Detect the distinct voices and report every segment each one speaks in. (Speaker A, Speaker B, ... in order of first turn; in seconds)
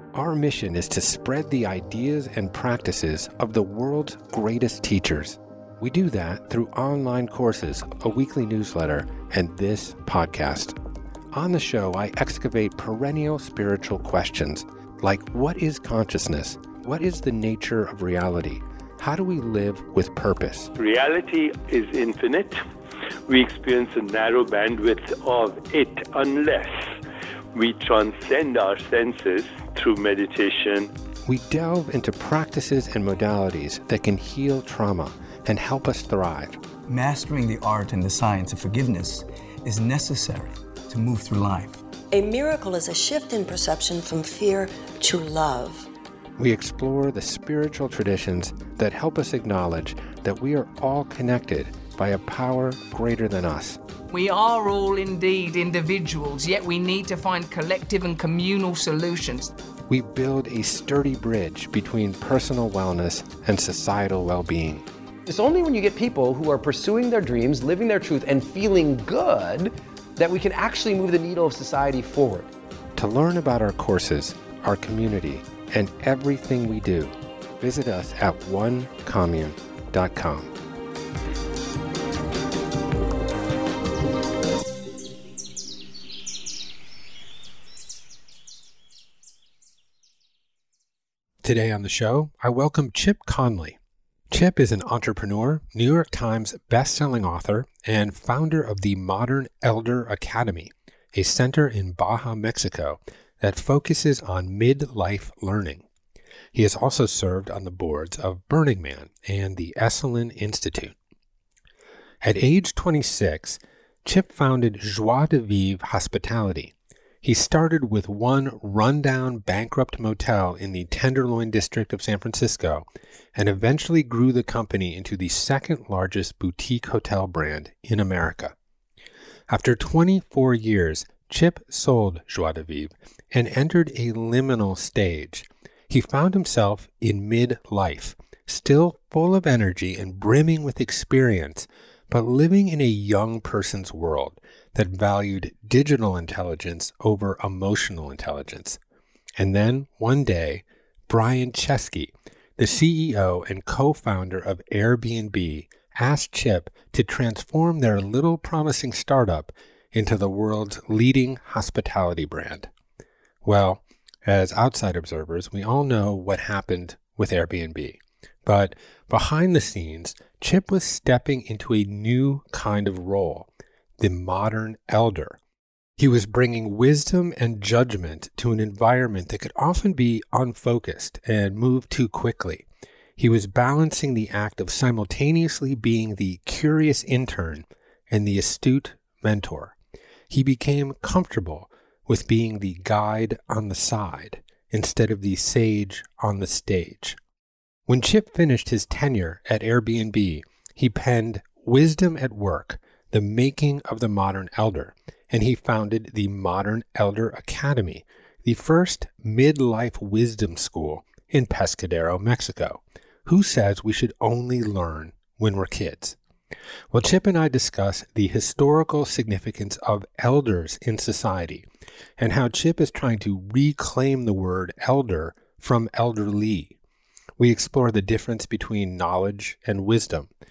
Speaker A: 0.1-10.8, 11.3-20.7, 31.2-36.6, 46.4-53.8, 59.9-64.8, 73.0-80.5, 91.4-93.8, 94.3-105.8, 106.5-110.9, 112.2-128.5, 129.5-148.8, 149.4-162.7, 163.4-175.4, 176.0-182.7, 183.2-189.7, 190.3-197.2, 197.9-216.2, 216.9-221.6, 222.2-226.8, 227.4-230.3
Speaker B: 20.7-22.6, 23.3-26.8, 27.5-30.9
Speaker C: 36.9-41.8
Speaker D: 42.1-45.9
Speaker E: 54.1-59.5
Speaker F: 65.3-72.5